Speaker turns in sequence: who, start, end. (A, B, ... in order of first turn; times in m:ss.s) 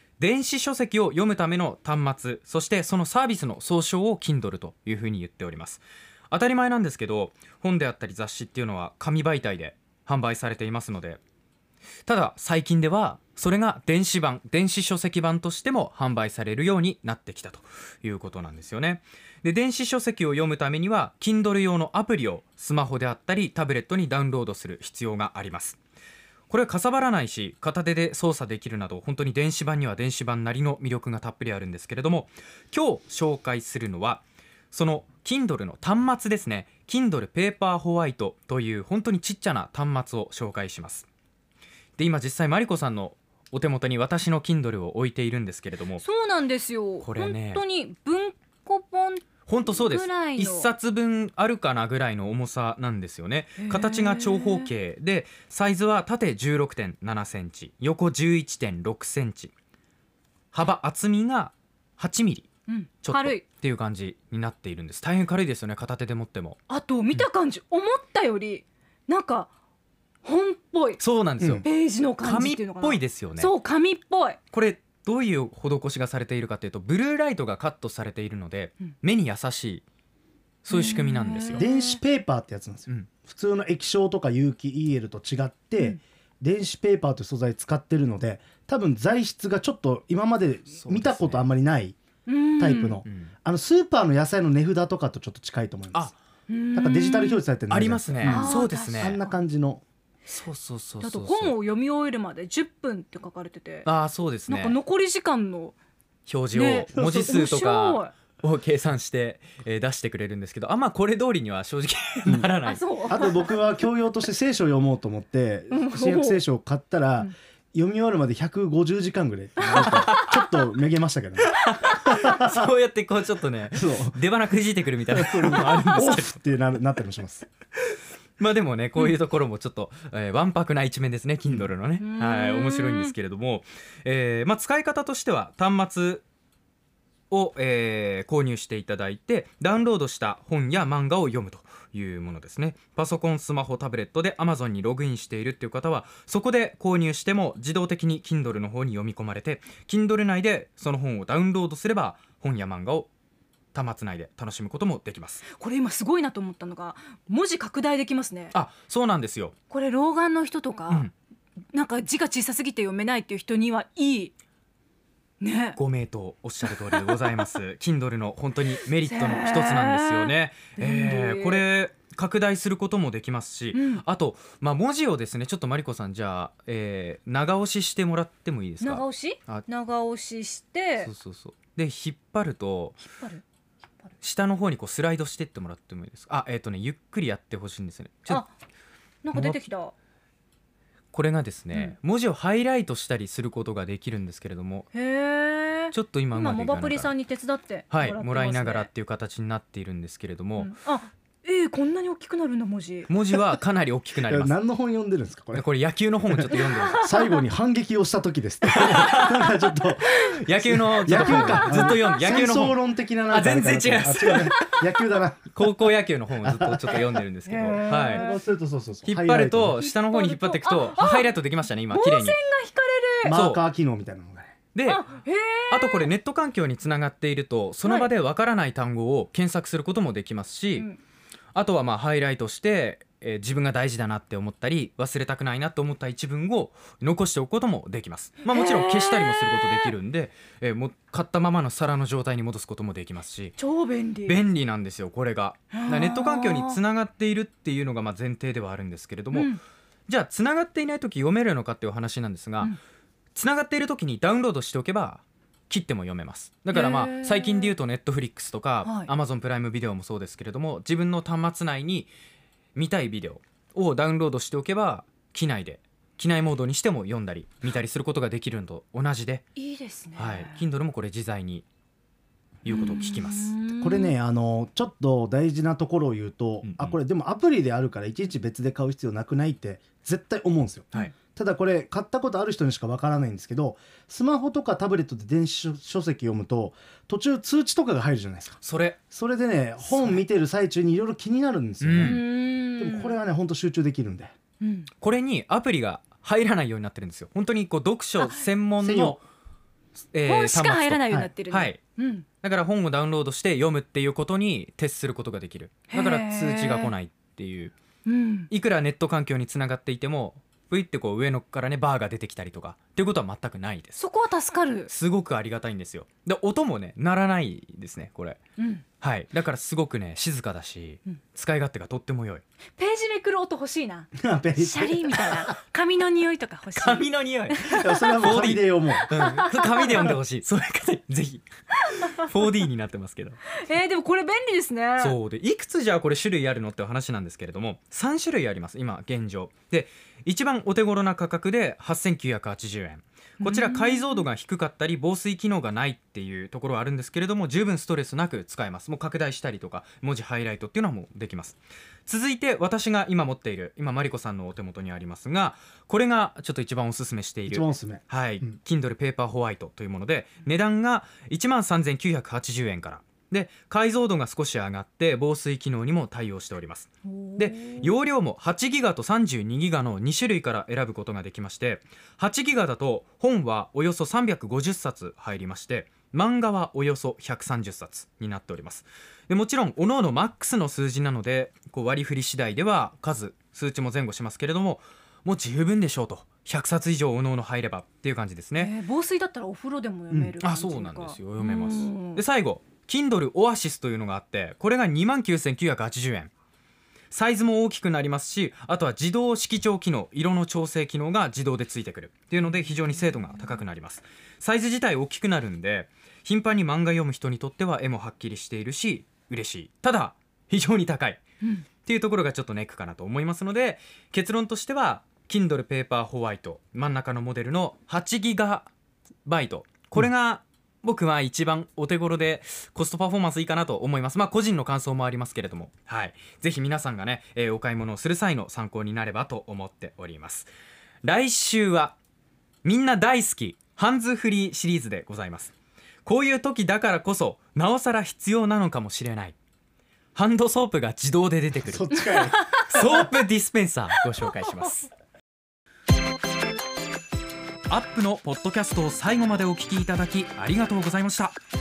0:00.2-0:11.2 A
0:12.1-0:25.8 A
0:26.5-0:41.1 A
0:42.0-0:46.0 A
0:46.0-0:50.7 B
0:47.0-0:47.6 A
0:49.5-0:59.5 A
0:53.6-0:54.7 B
1:00.5-1:02.5 A
1:02.7-1:03.4 B
1:03.0-1:06.6 A
1:06.7-1:09.5 B
1:10.2-1:11.0 B
1:11.0-1:11.6 A
1:11.4-1:11.6 C
1:11.6-1:14.4 B
1:12.2-1:13.5 A
1:14.5-1:19.8 A
1:20.6-1:21.6 A
1:20.7-1:22.0 B
1:21.6-1:32.0 C
1:30.8-1:31.5 A
1:32.3-1:33.0 B
1:32.6-1:36.1 C
1:33.0-1:33.3 A
1:36.5-1:37.4 B
1:36.7-1:39.8 C
1:37.7-1:39.2 A
1:38.2-1:39.3 B
1:40.3-1:41.6 A
1:41.0-1:43.9 B
1:43.9-1:44.8 A
1:44.5-1:45.8 B
1:46.3-1:53.2 A
1:46.5-1:48.1 B
1:47.0-1:47.2 C
1:52.2-1:52.5 C
1:52.6-1:53.5 B
1:53.1-2:02.7 C
1:55.7-1:56.4 B
1:59.7-2:00.1 B
1:59.7-2:00.6 A
2:01.5-2:06.4 A
2:03.7-2:04.2 C
2:05.1-2:07.5 C
2:08.4-2:16.2 A
2:12.0-2:13.1 B
2:17.3-2:33.1 A
2:33.7-2:35.4 A
2:35.5-2:38.5 B
2:38.5-2:39.6 A
2:39.7-2:41.1 B
2:41.7-2:44.3 B
2:45.4-2:45.8 B
2:45.8-2:59.7 A
2:46.7-2:47.5 B
2:48.9-2:51.7 B
2:53.7-2:54.0 B
2:58.8-3:01.1 B
3:01.0-3:03.0 A
3:04.2-3:08.4 A
3:09.2-3:09.9 B
3:09.3-3:09.6 A
3:11.1-3:14.9 A
3:14.9-3:18.9 B
3:15.9-3:17.1 A
3:17.9-3:20.7 A
3:20.6-3:23.4 B
3:23.1-3:24.6 A
3:24.3-3:25.7 C
3:25.5-3:27.0 A
3:26.3-3:35.8 C
3:26.5-3:27.4 B
3:28.7-3:29.5 A
3:30.2-3:32.8 A
3:31.2-3:32.4 B
3:33.3-3:34.9 A
3:35.5-3:38.3 A
3:36.4-3:37.0 C
3:37.5-3:38.4 B
3:37.9-3:39.8 C
3:39.0-3:42.4 A
3:39.8-3:41.3 B
3:41.9-3:43.4 B
3:43.2-3:44.6 C
3:43.3-3:43.6 A
3:44.7-3:45.0 A
3:44.9-3:46.1 B
3:45.7-3:50.9 A
3:47.8-3:48.1 B
3:50.8-3:51.0 B
3:51.6-4:03.6 A
3:58.4-3:59.9 B
4:03.6-4:04.4 B
4:04.3-4:09.5 A
4:05.7-4:06.8 B
4:09.3-4:09.6 B
4:10.1-4:12.8 A
4:13.4-4:22.1 A
4:16.7-4:17.8 B
4:18.8-4:19.1 B
4:22.8-4:29.4 A
4:29.6-4:30.6 B
4:30.2-4:31.7 A
4:32.6-4:33.6 A
4:32.7-4:34.1 B
4:33.8-4:48.6 C
4:36.6-4:37.0 A
4:48.6-4:49.0 A
4:49.1-4:54.3 C
4:49.8-4:50.2 A
4:51.8-4:52.2 A
4:52.0-4:53.2 B
4:54.6-4:54.9 B
4:55.0-4:59.2 A
4:58.2-4:58.5 B
4:58.8-4:59.2 C
5:00.1-5:01.8 A
5:00.2-5:02.3 B
5:02.4-5:07.7 A
5:05.9-5:06.9 B
5:08.1-5:08.5 B
5:08.5-5:14.0 A
5:14.0-5:14.9 B
5:14.9-5:18.4 A
5:18.6-5:18.8 B
5:19.0-5:22.4 A
5:22.8-5:28.2 B
5:24.2-5:25.5 C
5:26.8-5:33.4 A
5:27.8-5:29.1 C
5:29.0-5:30.2 B
5:33.6-5:35.2 B
5:35.0-6:28.7 A
5:43.4-5:44.3 B
5:57.5-5:58.6 C
6:07.1-6:07.9 B
6:28.6-6:32.2 B
6:30.1-6:36.3 A
6:37.1-6:51.2 A
6:51.8-6:58.7 A
6:59.2-7:10.5 A
7:11.0-7:12.0 A
7:12.6-7:15.5 A
7:16.0-7:19.4 A
7:20.2-7:24.9 A
7:21.6-7:22.9 C
7:27.7-7:31.4 A